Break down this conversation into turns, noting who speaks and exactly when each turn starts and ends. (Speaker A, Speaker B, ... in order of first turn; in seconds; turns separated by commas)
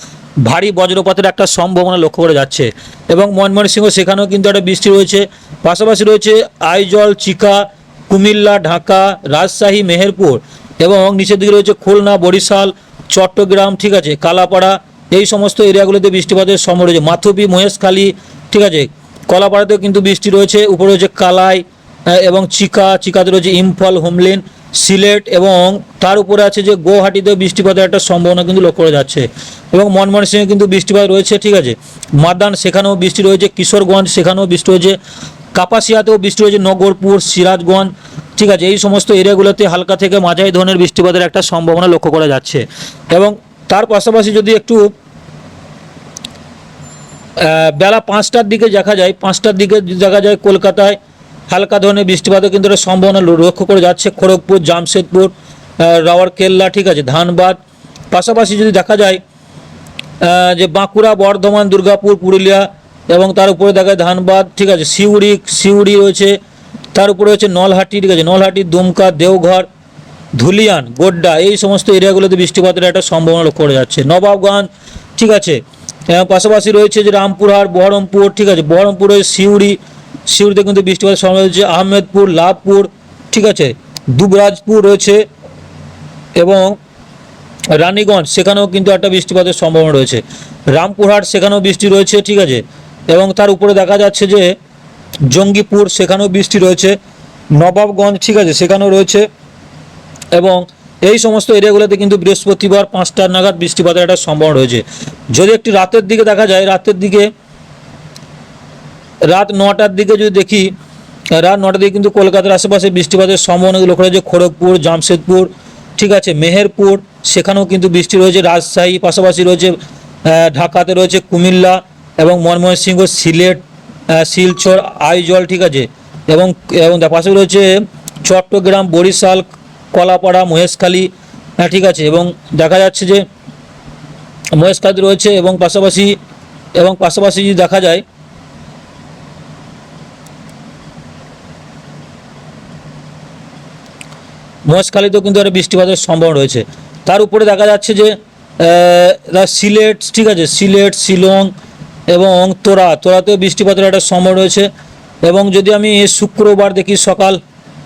Speaker A: 0.4-35.0, Speaker A: 35.5-44.9, Speaker A: 47.4-51.0, Speaker A: 51.5-57.6, Speaker A: 58.1-59.2, Speaker A: 60.2-66.4, Speaker A: 66.9-69.7, Speaker A: 70.3-85.2, Speaker A: 86.3-86.8, Speaker A: 87.7-94.5, Speaker A: 95.3-97.0, Speaker A: 97.5-99.3, Speaker A: 100.3-107.3, Speaker A: 109.3-110.7, Speaker A: 111.3-133.2, Speaker A: 134.5-136.2, Speaker A: 136.7-138.0, Speaker A: 144.7-151.5, Speaker A: 152.1-154.7, Speaker A: 155.2-157.4